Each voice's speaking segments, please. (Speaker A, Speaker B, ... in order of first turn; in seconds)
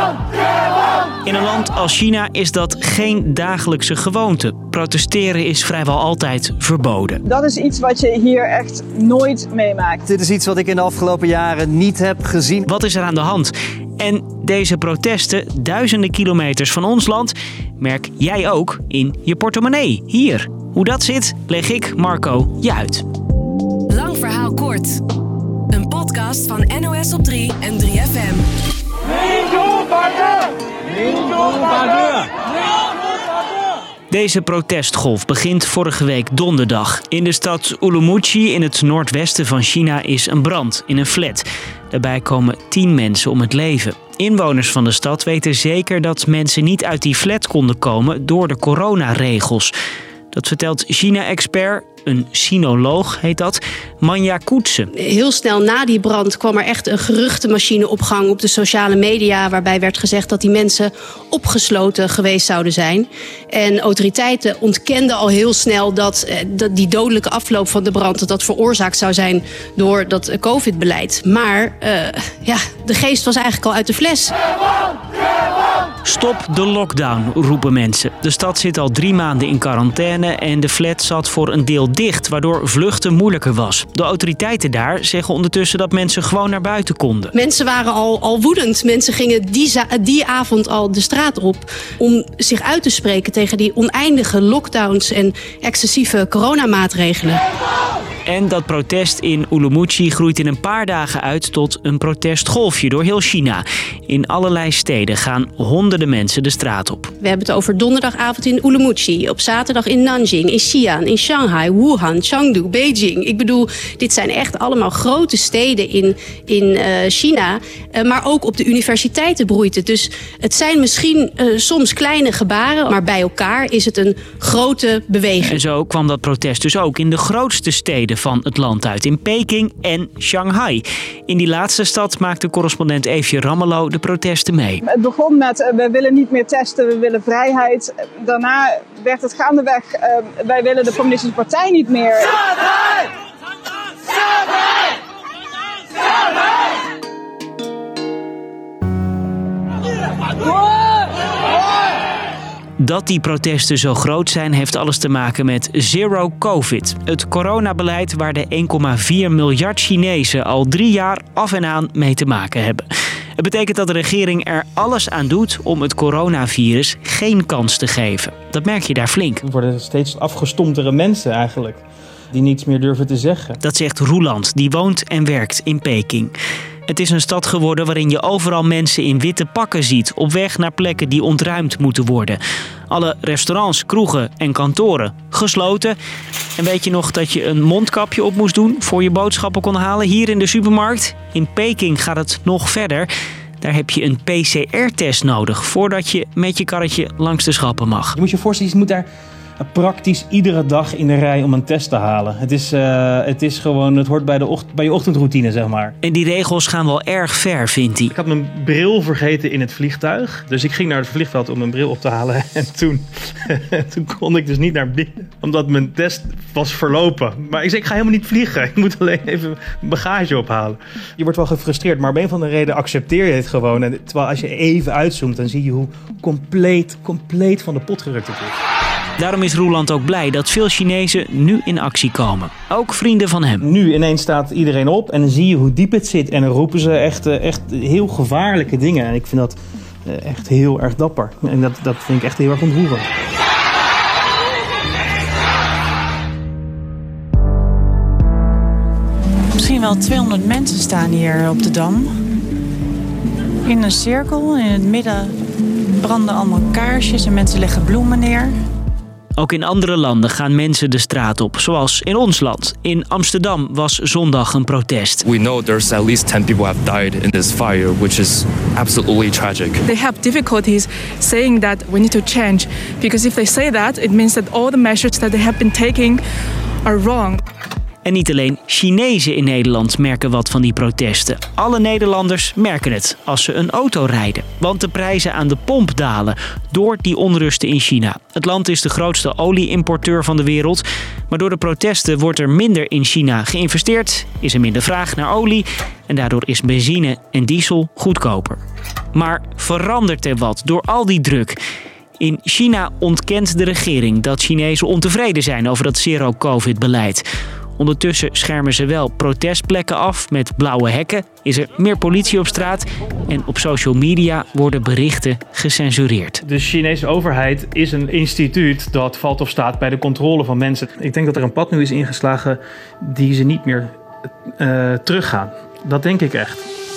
Speaker A: 1.2-7.2, 12.7-23.0, 34.1-49.7, 50.3-54.9, 76.0-87.3, 98.3-107.1, 125.4-134.8, 152.8-162.9, 163.4-169.4, 173.6-176.3, 176.9-186.0, 186.6-193.1, 193.6-198.2, 206.0-208.1, 229.2-233.7, 259.4-265.3, 278.1-298.6, 299.1-301.6, 302.2-307.2, 307.8-316.4
Speaker B: 7.3-10.1, 134.9-142.4
Speaker C: 10.1-12.7
Speaker D: 23.9-25.0, 25.7-28.4
Speaker E: 55.0-74.3, 87.3-97.4, 107.2-125.6
Speaker F: 169.4-173.6, 198.2-199.1, 199.6-205.9, 208.1-228.6, 233.6-243.1, 316.4-324.0, 324.6-326.7
Speaker G: 249.6-252.1, 253.7-255.3, 256.0-258.5
Speaker H: 265.2-269.8
Speaker I: 269.9-276.2, 276.9-277.4